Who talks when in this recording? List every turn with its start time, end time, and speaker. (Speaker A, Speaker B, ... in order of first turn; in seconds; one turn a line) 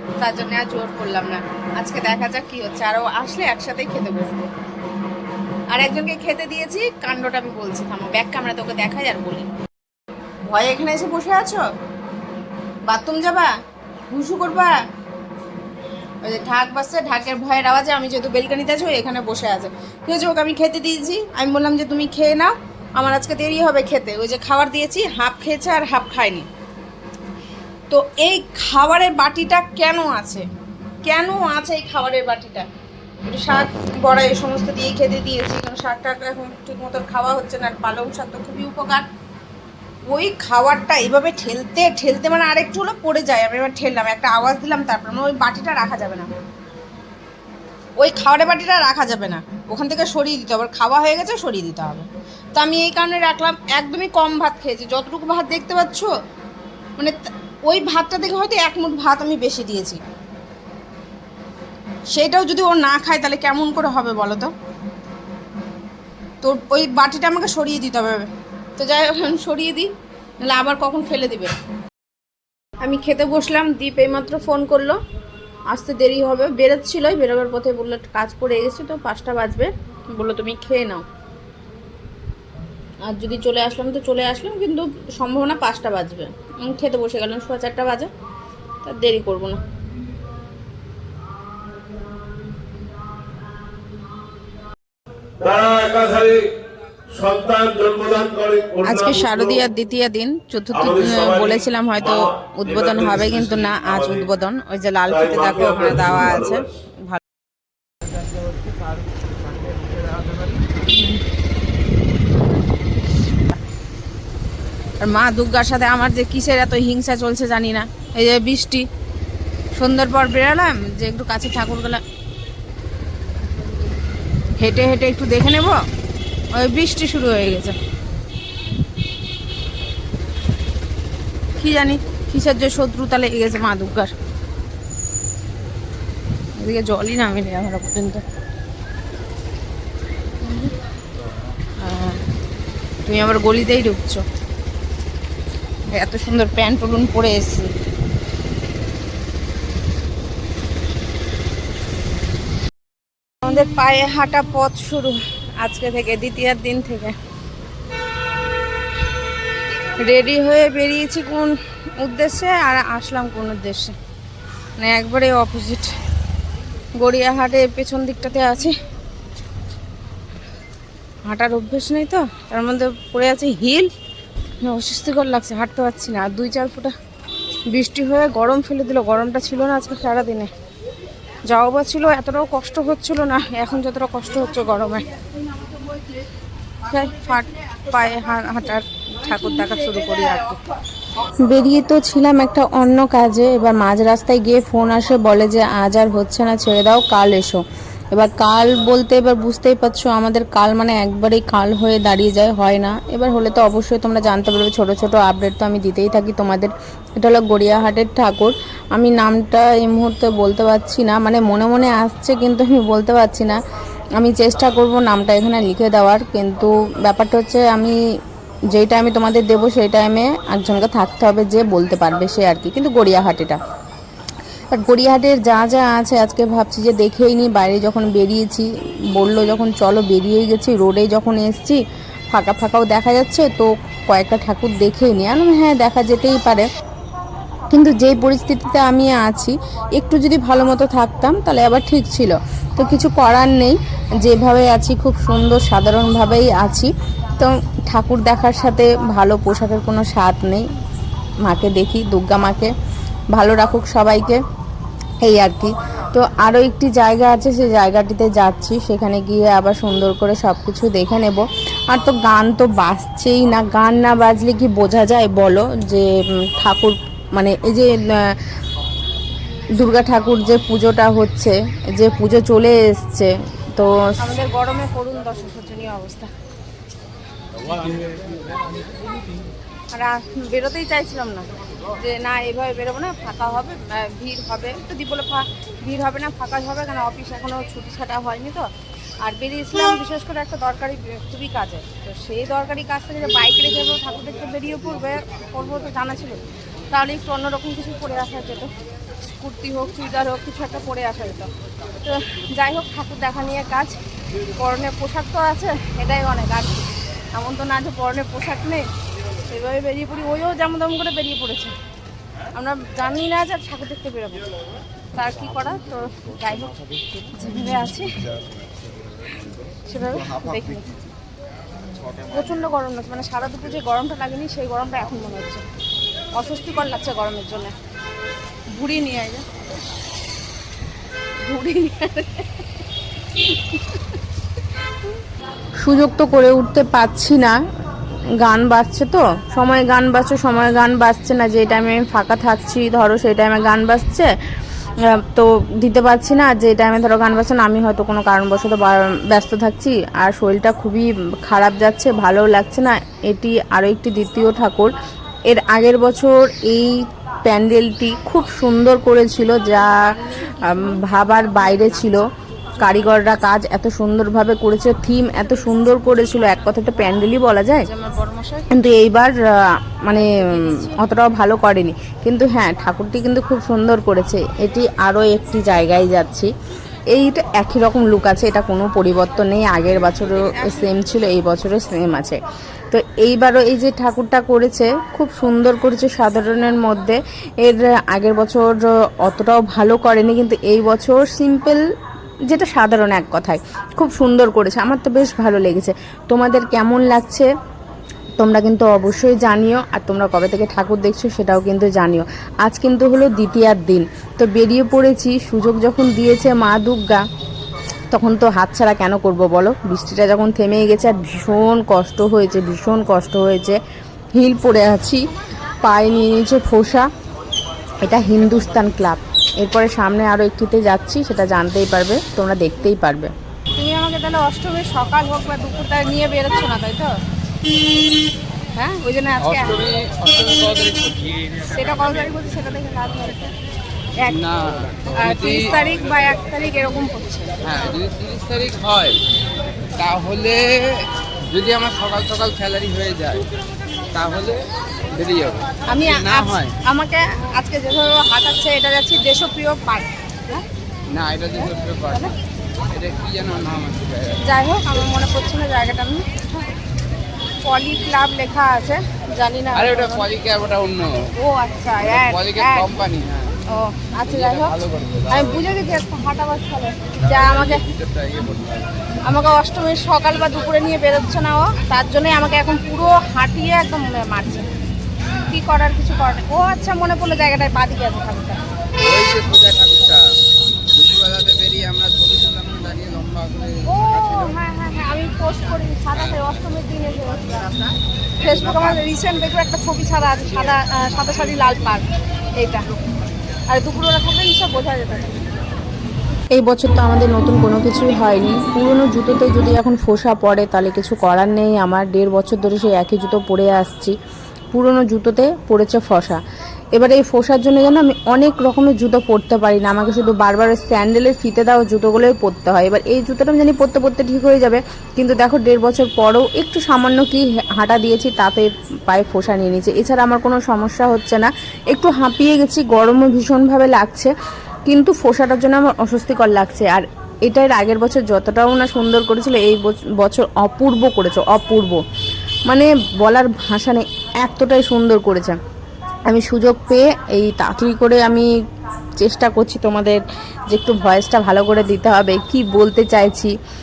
Speaker A: 0.2-4.5
Speaker A: 5.7-9.5
Speaker A: 10.4-11.7
Speaker A: 12.9-13.5
Speaker A: 14.1-14.8
Speaker A: 16.2-26.5
Speaker A: 27.9-30.5
Speaker A: 31.0-32.7
Speaker A: 33.2-39.1
Speaker A: 40.1-46.3
Speaker A: 48.0-56.1
Speaker A: 57.0-60.0
Speaker A: 62.1-64.5
Speaker A: 66.4-71.5
Speaker A: 72.8-75.0
Speaker A: 75.7-81.0
Speaker A: 83.1-88.1
Speaker A: 88.8-89.6
Speaker B: 95.4-96.5
Speaker B: 97.1-98.8
Speaker A: 98.7-107.2
Speaker C: 109.8-110.5
Speaker A: 115.0-118.9
Speaker A: 119.7-122.0
Speaker A: 124.6-125.8
Speaker A: 126.5-127.8
Speaker A: 131.6-134.1
Speaker A: 136.6-138.2
Speaker A: 141.8-142.2
Speaker A: 143.1-144.2
Speaker A: 145.9-147.8
Speaker A: 153.4-157.2
Speaker A: 159.9-164.0
Speaker A: 164.8-165.9
Speaker A: 167.0-168.8
Speaker A: 171.2-173.9
Speaker A: 174.6-177.0
Speaker A: 177.7-180.5
Speaker A: 181.5-185.1
Speaker A: 186.8-190.6
Speaker A: 191.4-213.6
Speaker A: 214.2-218.0
Speaker A: 218.7-223.6
Speaker A: 224.7-236.7
Speaker A: 237.7-250.7
Speaker A: 251.4-252.7
Speaker A: 253.3-254.4
Speaker A: 255.2-268.4
Speaker A: 269.8-276.3
Speaker A: 279.9-288.7
Speaker A: 289.2-298.7
Speaker A: 299.2-301.5
Speaker A: 302.0-304.0
Speaker A: 304.6-308.9
Speaker A: 309.5-311.8
Speaker A: 312.5-314.4
Speaker A: 315.2-316.8
Speaker A: 317.3-318.2
Speaker A: 319.8-320.9
Speaker A: 322.2-325.6
Speaker A: 326.4-327.7
Speaker A: 328.7-329.5
Speaker A: 331.4-332.5
Speaker A: 333.4-334.0
Speaker A: 335.8-337.6
Speaker A: 338.3-344.3
Speaker A: 345.0-354.9
Speaker A: 355.5-376.5
Speaker A: 377.1-382.4
Speaker A: 382.9-391.8
Speaker A: 392.4-397.5
Speaker A: 398.4-407.2
Speaker A: 408.1-413.8
Speaker A: 414.3-415.3
Speaker A: 415.8-417.1
Speaker A: 418.0-427.2
Speaker A: 428.8-429.9
Speaker C: 429.4-432.1
Speaker A: 431.7-433.5
Speaker C: 434.3-435.8
Speaker A: 435.1-437.6
Speaker C: 437.6-439.2
Speaker C: 440.0-443.5
Speaker C: 444.1-446.8
Speaker A: 445.9-450.6
Speaker C: 451.1-452.4
Speaker A: 451.6-452.3
Speaker C: 452.9-454.4
Speaker A: 454.4-456.5
Speaker A: 457.6-460.3
Speaker C: 459.7-461.3
Speaker A: 461.4-462.9
Speaker C: 462.0-463.6
Speaker A: 463.7-464.8
Speaker C: 464.2-465.7
Speaker A: 465.3-467.8
Speaker C: 467.2-469.0
Speaker A: 469.2-474.7
Speaker A: 475.5-478.6
Speaker C: 479.0-480.4
Speaker C: 480.9-484.6
Speaker A: 483.9-487.8
Speaker A: 488.4-492.9
Speaker A: 493.7-495.4
Speaker A: 496.6-504.1
Speaker A: 504.7-506.4
Speaker A: 506.9-524.3
Speaker A: 524.9-532.0
Speaker A: 532.7-535.6
Speaker A: 536.3-538.5
Speaker A: 539.2-543.5